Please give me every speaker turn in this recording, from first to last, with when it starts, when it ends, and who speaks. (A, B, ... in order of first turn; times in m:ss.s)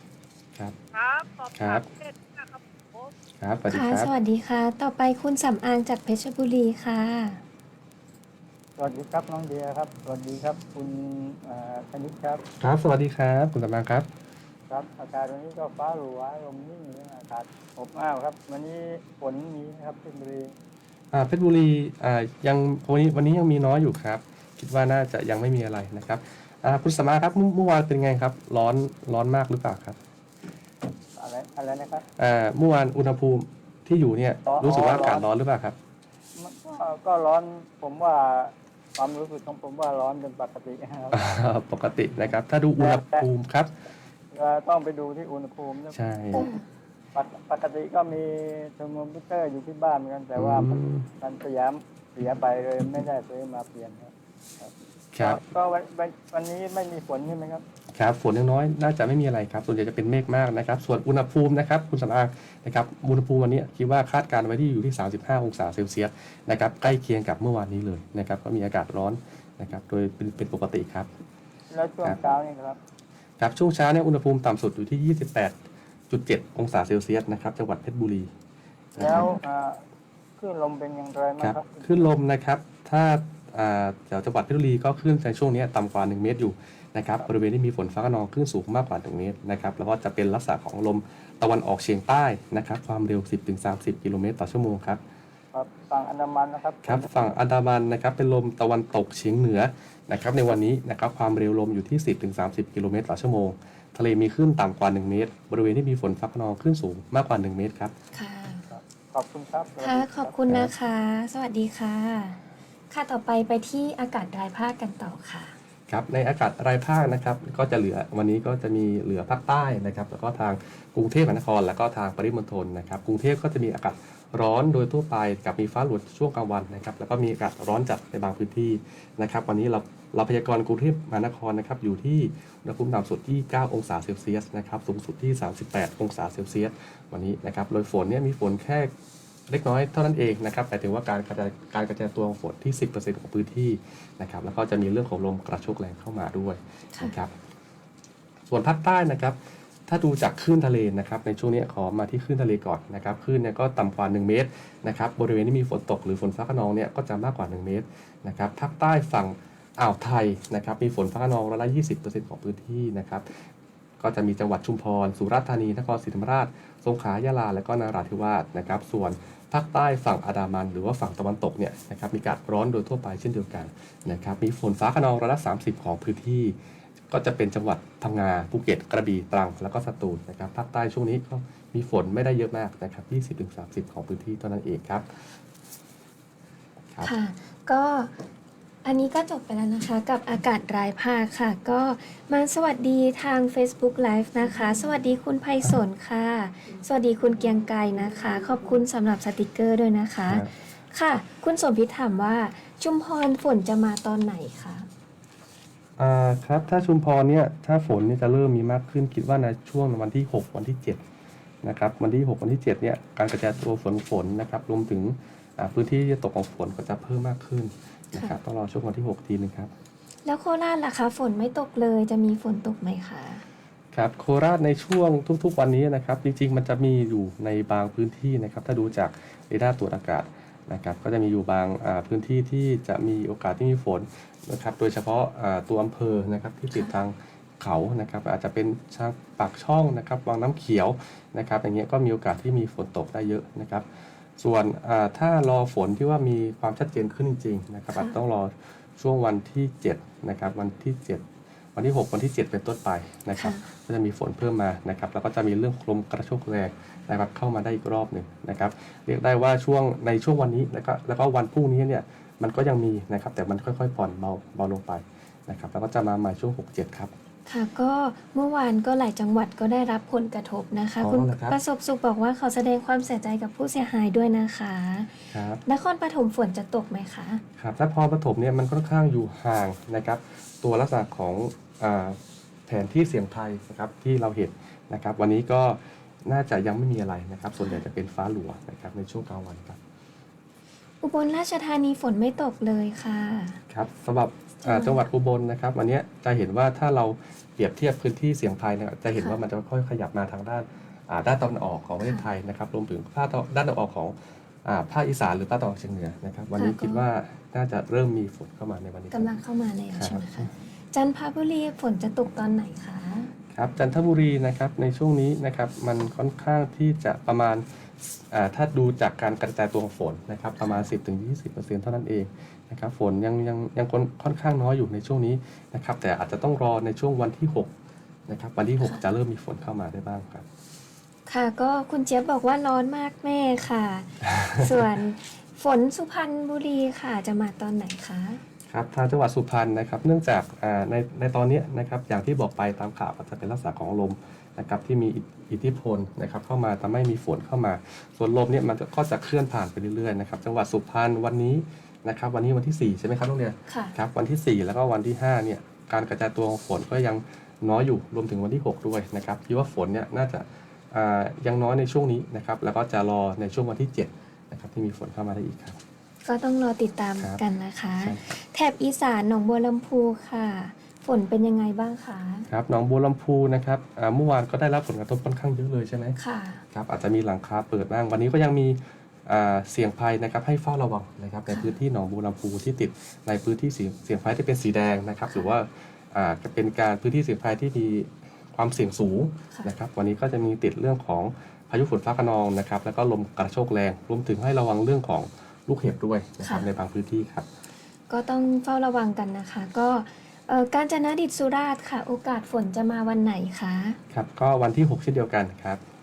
0:00.9-0:03.1 A
0:01.6-0:01.9 B
0:03.4-0:04.1 B
0:03.7-0:07.4 C
0:08.8-0:12.4 D
0:12.6-0:14.1 B
0:14.7-0:20.5 D
0:21.1-0:30.0 B
0:31.2-0:32.0 D
0:32.2-0:35.8 B
0:34.5-0:35.2 D
0:36.4-0:41.2 D
0:41.1-0:43.7 B
0:42.8-0:43.3 D
0:44.3-0:46.4 D
0:45.9-0:46.5 B
0:46.3-0:46.6 C
0:47.1-0:57.6 D
0:50.4-0:51.1 B
0:55.1-0:55.4 B
0:57.9-1:11.1 B
1:11.7-1:12.8 D
1:13.4-1:15.6 B
1:16.1-1:18.3 B
1:19.0-1:19.3 B
1:19.0-1:19.8 D
1:19.0-1:19.4 C
1:20.4-1:22.1 D
1:21.4-1:35.0 B
1:35.5-1:37.2 D
1:36.8-1:47.9 B
1:48.1-1:48.6 C
1:48.7-1:50.4 D
1:49.8-1:55.5 C
1:55.9-2:18.9 B
2:19.5-2:27.3 B
2:28.5-2:43.3 B
2:44.0-2:56.6 B
2:57.1-3:05.3 B
3:07.0-3:08.2 C
3:08.8-3:24.9 C
3:20.3-3:20.5 B
3:26.0-3:31.0 B
3:31.6-3:39.7 B
3:40.2-3:43.4 C
3:43.9-4:03.9 B
4:04.4-4:27.1 B
4:13.3-4:13.7 C
4:27.5-4:37.4 C
4:31.0-4:31.6 B
4:35.3-4:35.6 B
4:37.6-4:49.8 B
4:51.0-4:53.6 C
4:53.7-5:09.3 B
4:54.6-4:55.0 C
5:02.0-5:02.3 C
5:06.6-5:07.0 C
5:09.1-5:13.3 C
5:09.9-5:10.5 B
5:13.5-5:17.6 B
5:18.3-5:27.7 B
5:28.3-5:30.5 B
5:31.3-5:38.4 C
5:34.4-5:34.7 B
5:38.7-6:05.8 B
5:53.7-5:54.0 C
6:06.2-6:12.5 C
6:08.0-6:08.3 B
6:12.5-6:16.2 B
6:16.2-6:16.6 C
6:16.7-6:37.5 B
6:21.5-6:21.8 C
6:38.1-6:44.0 C
6:44.1-6:45.8 B